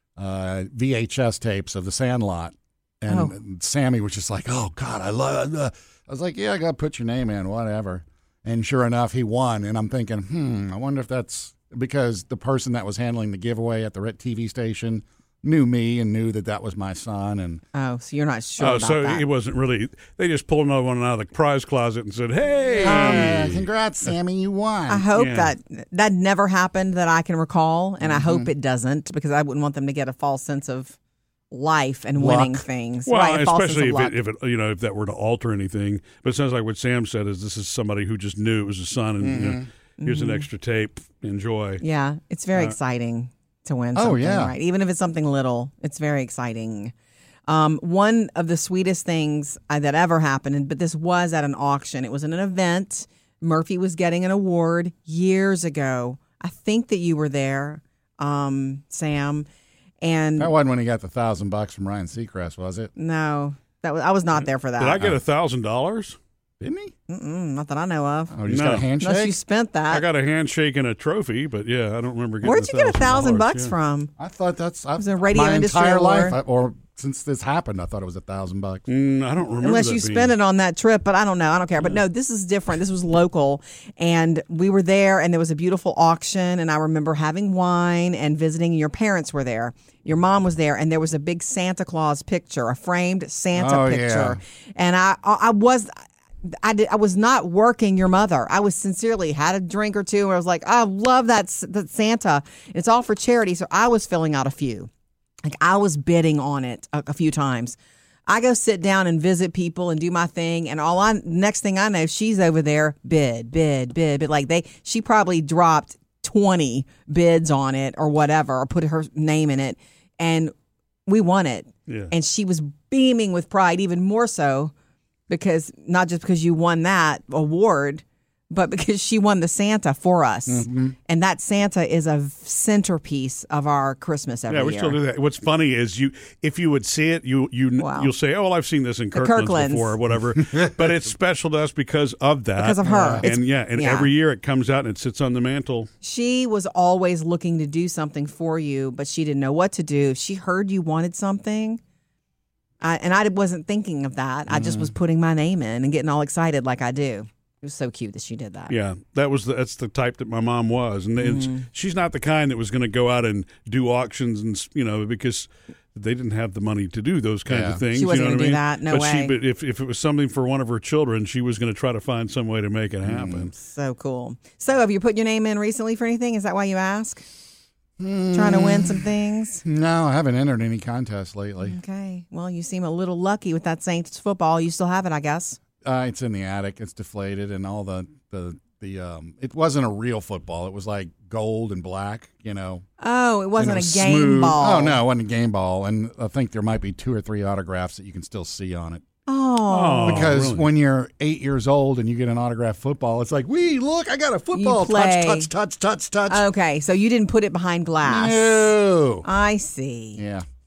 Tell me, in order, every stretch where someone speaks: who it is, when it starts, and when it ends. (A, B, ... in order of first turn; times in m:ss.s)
0:00.2-0:17.6 A
0:03.1-0:03.3 B
0:17.7-0:19.2 B
0:18.6-0:23.6 C
0:22.8-0:25.1 A
0:24.9-0:31.0 B
0:25.2-0:25.5 C
0:28.0-0:28.5 A
0:31.5-0:34.1 B
0:32.2-0:32.6 A
0:33.1-0:41.8 C
0:39.2-0:39.7 A
0:40.0-0:40.5 B
0:41.8-0:46.9 B
0:43.9-0:44.5 A
0:47.5-0:59.5 B
1:00.0-1:00.5 B
1:00.4-1:02.9 A
1:03.0-1:05.0 B
1:04.8-1:06.2 C
1:06.6-1:06.9 A
1:07.1-1:08.4 B
1:08.3-1:09.3 A
1:08.5-1:08.9 C
1:09.0-1:10.0 B
1:09.9-1:13.7 C
1:12.4-1:14.1 B
1:14.2-1:18.8 A
1:15.0-1:16.4 B
1:18.9-1:20.3 C
1:19.6-1:35.9 B
1:33.5-1:34.4 A
1:36.4-1:44.9 B
1:45.4-1:47.8 B
1:48.3-2:00.5 B
2:01.1-2:04.7 B
2:01.9-2:02.1 C
2:05.3-2:15.0 B
2:10.5-2:11.0 A
2:14.5-2:25.9 C
2:17.8-2:18.1 B
2:19.1-2:20.0 B
2:22.6-2:24.1 B
2:22.8-2:23.2 A
2:26.0-2:31.8 B
2:32.8-2:38.7 B
2:34.5-2:34.9 A
2:38.7-2:53.5 C
2:41.2-2:41.7 B
2:47.5-2:47.8 A
2:47.9-2:49.4 B
2:53.0-2:53.5 A
2:53.5-2:57.2 B
2:58.0-2:59.1 A
2:58.3-2:59.6 B
2:59.6-3:01.8 A
3:01.6-3:05.6 B
3:05.8-3:12.8 A
3:13.0-3:15.0 B
3:13.6-3:19.0 A
3:19.3-3:20.3 B
3:19.7-3:20.7 C
3:20.0-3:26.4 A
3:24.5-3:25.5 B
3:26.3-3:30.2 B
3:28.0-3:29.3 A
3:30.2-3:30.4 A